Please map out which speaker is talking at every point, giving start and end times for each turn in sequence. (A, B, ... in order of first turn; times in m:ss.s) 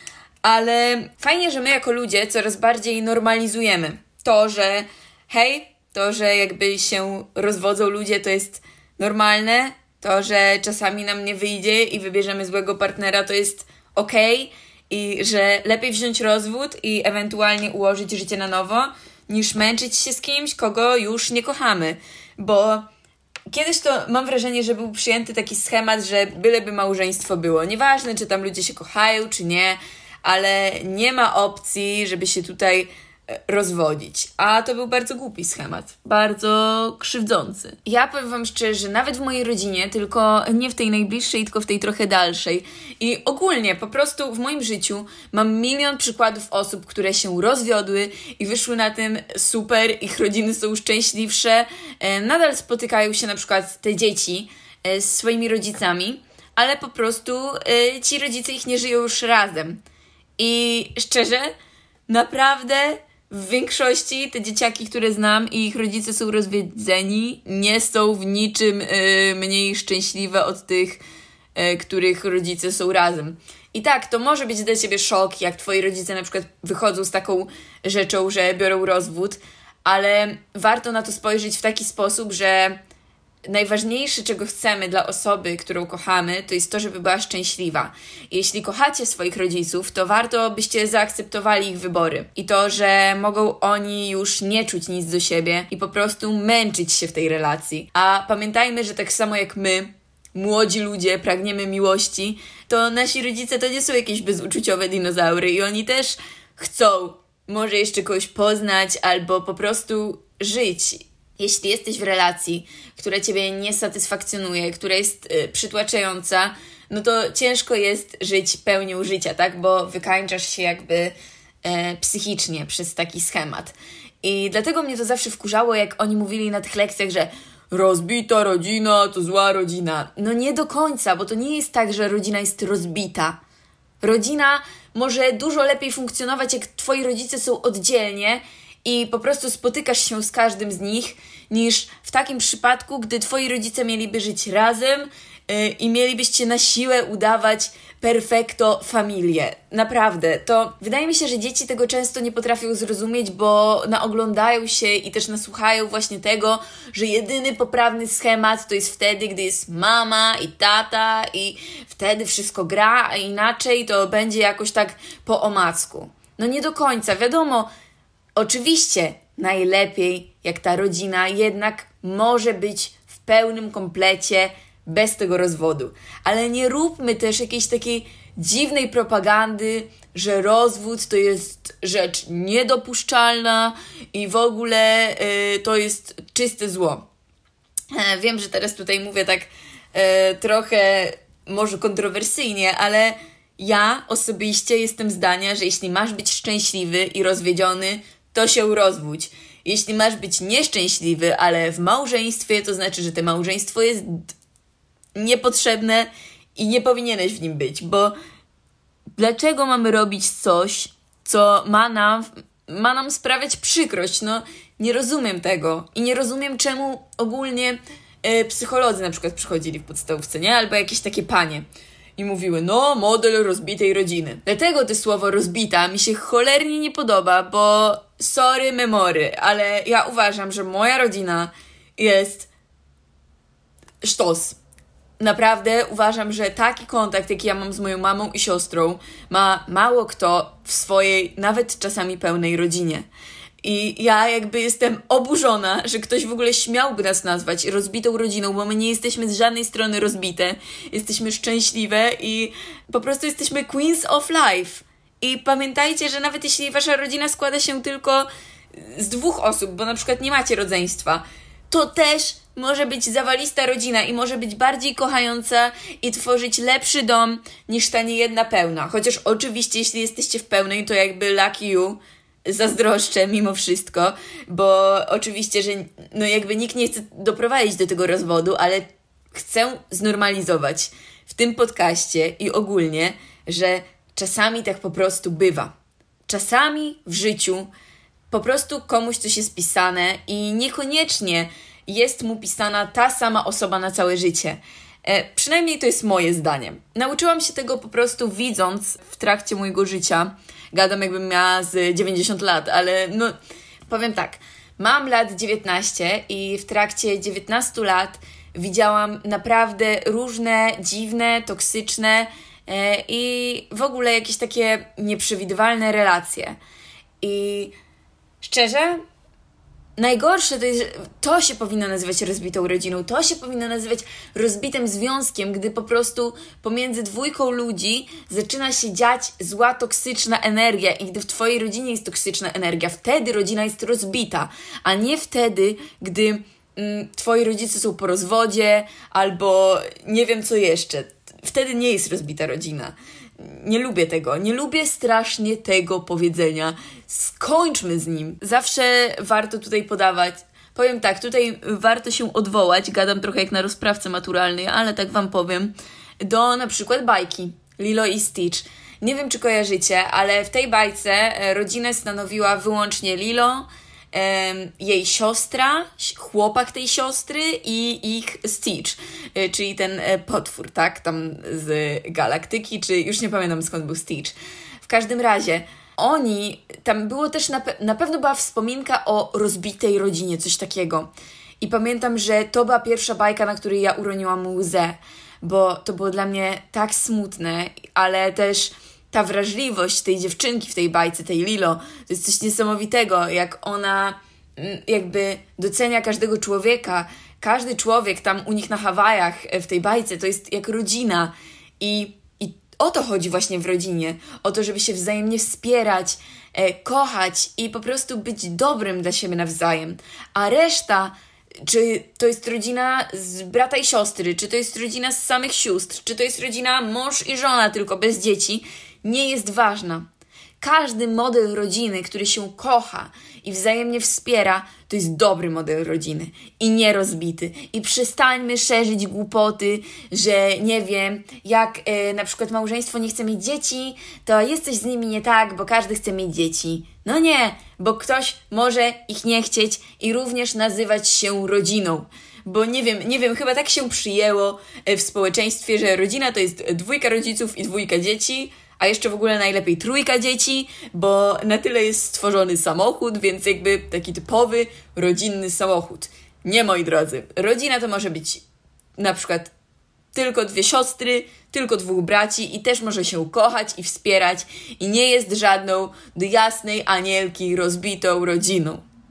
0:00.4-0:22.8 A
0:23.5-0:59.8 A
1:00.4-1:01.5 A
1:02.1-1:11.0 A
1:11.5-1:22.8 A
1:23.5-2:13.4 A
2:14.0-2:47.7 A
2:48.4-3:07.1 A
3:07.9-3:24.3 A
3:25.1-3:28.1 A
3:29.2-3:41.6 A
3:42.2-3:52.5 A
3:54.0-3:54.6 A
3:55.2-4:03.0 A
4:03.6-4:45.7 A
4:46.3-4:47.7 A
4:48.3-5:03.3 A
5:03.9-5:16.6 A
5:17.2-5:17.7 A
5:18.4-5:19.0 A
5:20.0-7:00.1 A
7:00.6-7:38.4 A
7:39.0-7:39.5 A
7:40.1-7:48.8 A